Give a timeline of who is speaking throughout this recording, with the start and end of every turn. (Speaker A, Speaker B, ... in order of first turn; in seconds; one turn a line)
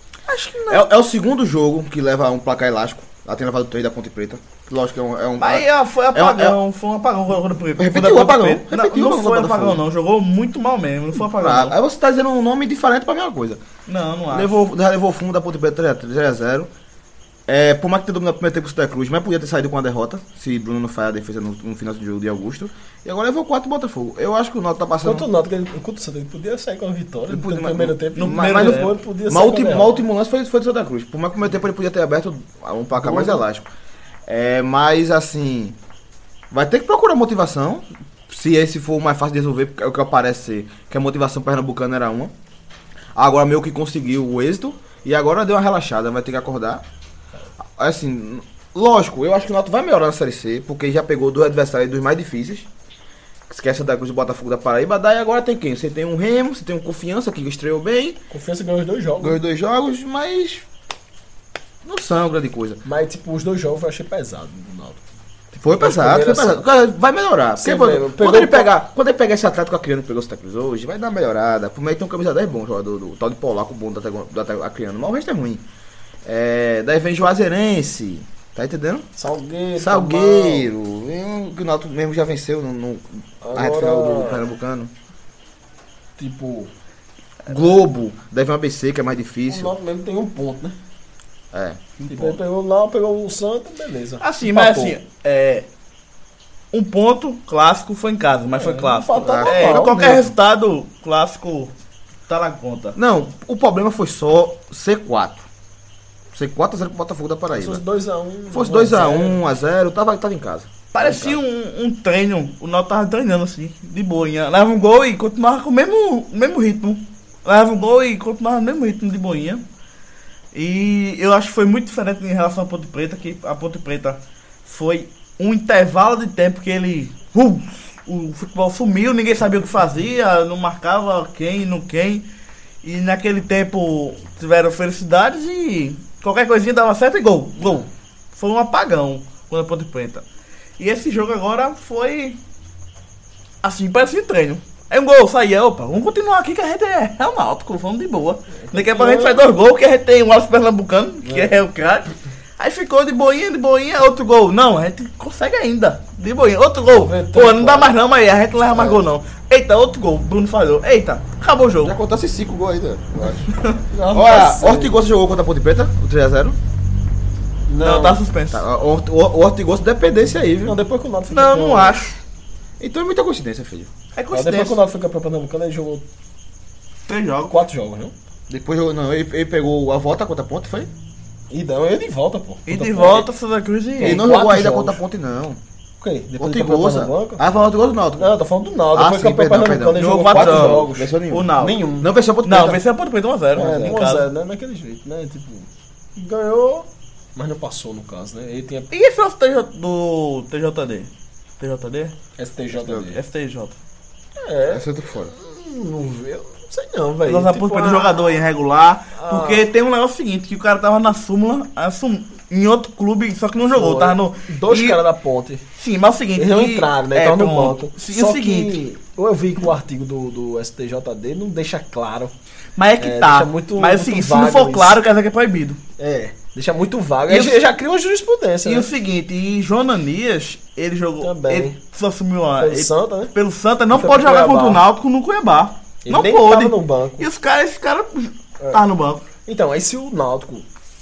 Speaker A: 0.3-0.9
Speaker B: 0.7-6.6
Speaker A: 5.4-11.8
Speaker B: 7.8-9.8
Speaker B: 11.2-13.6
Speaker A: 13.9-14.6
Speaker B: 14.3-16.7
Speaker B: 17.5-25.3
Speaker C: 25.0-30.0
Speaker B: 27.3-33.7
Speaker A: 28.1-28.9
Speaker C: 32.9-33.4
Speaker B: 34.3-35.8
Speaker B: 36.5-42.3
Speaker B: 43.1-46.8
Speaker B: 47.8-52.7
Speaker B: 53.5-58.2
Speaker C: 58.3-59.4
Speaker B: 59.2-60.6
Speaker B: 61.8-62.8
Speaker C: 62.8-66.6
Speaker B: 65.6-75.6
Speaker C: 67.6-68.7
Speaker B: 76.2-79.1
Speaker C: 79.2-80.7
Speaker B: 79.8-84.9
Speaker C: 83.4-84.4
Speaker C: 86.2-86.7
Speaker B: 87.5-89.7
Speaker C: 89.5-90.8
Speaker B: 91.5-91.8
Speaker A: 92.0-92.4
Speaker C: 92.0-95.0
Speaker A: 94.2-95.7
Speaker A: 96.7-101.7
Speaker C: 98.5-99.9
Speaker B: 99.2-100.3
Speaker A: 102.3-103.0
Speaker B: 102.9-105.5
Speaker B: 106.3-107.8
Speaker C: 107.5-109.4
Speaker B: 108.5-111.4
Speaker A: 110.9-119.6
Speaker A: 120.5-132.2
Speaker A: 132.8-140.2
Speaker A: 140.8-142.4
Speaker A: 143.6-161.9
Speaker C: 148.5-149.6
Speaker C: 151.2-151.6
Speaker C: 156.9-158.0
Speaker B: 158.7-159.0
Speaker B: 161.8-163.5
Speaker A: 163.5-163.8
Speaker C: 163.9-165.0
Speaker B: 164.1-166.6
Speaker C: 167.7-168.2
Speaker A: 167.8-168.6
Speaker B: 168.5-170.8
Speaker C: 170.6-172.0
Speaker A: 171.3-172.2
Speaker B: 172.8-173.9
Speaker A: 174.1-174.8
Speaker C: 174.3-176.0
Speaker A: 177.1-177.6
Speaker C: 177.5-178.1
Speaker B: 178.5-180.9
Speaker C: 181.5-183.3
Speaker A: 182.7-184.2
Speaker C: 184.0-185.0
Speaker B: 184.0-185.6
Speaker C: 186.0-187.4
Speaker B: 186.4-188.3
Speaker C: 188.2-192.1
Speaker B: 188.9-192.8
Speaker A: 189.9-191.8
Speaker A: 192.4-194.3
Speaker C: 193.5-198.9
Speaker A: 198.9-202.2
Speaker C: 202.4-203.2
Speaker A: 203.1-203.8
Speaker C: 204.4-208.4
Speaker B: 204.7-205.3
Speaker A: 207.2-215.0
Speaker C: 209.1-209.7
Speaker C: 213.7-215.6
Speaker A: 215.8-218.8
Speaker C: 216.3-222.3
Speaker A: 222.8-225.8
Speaker C: 223.0-225.0
Speaker C: 226.0-228.9
Speaker A: 227.3-227.6
Speaker A: 228.6-239.2
Speaker C: 231.2-231.8
Speaker C: 232.6-233.3
Speaker C: 233.9-234.8
Speaker C: 236.0-237.3
Speaker C: 239.4-240.7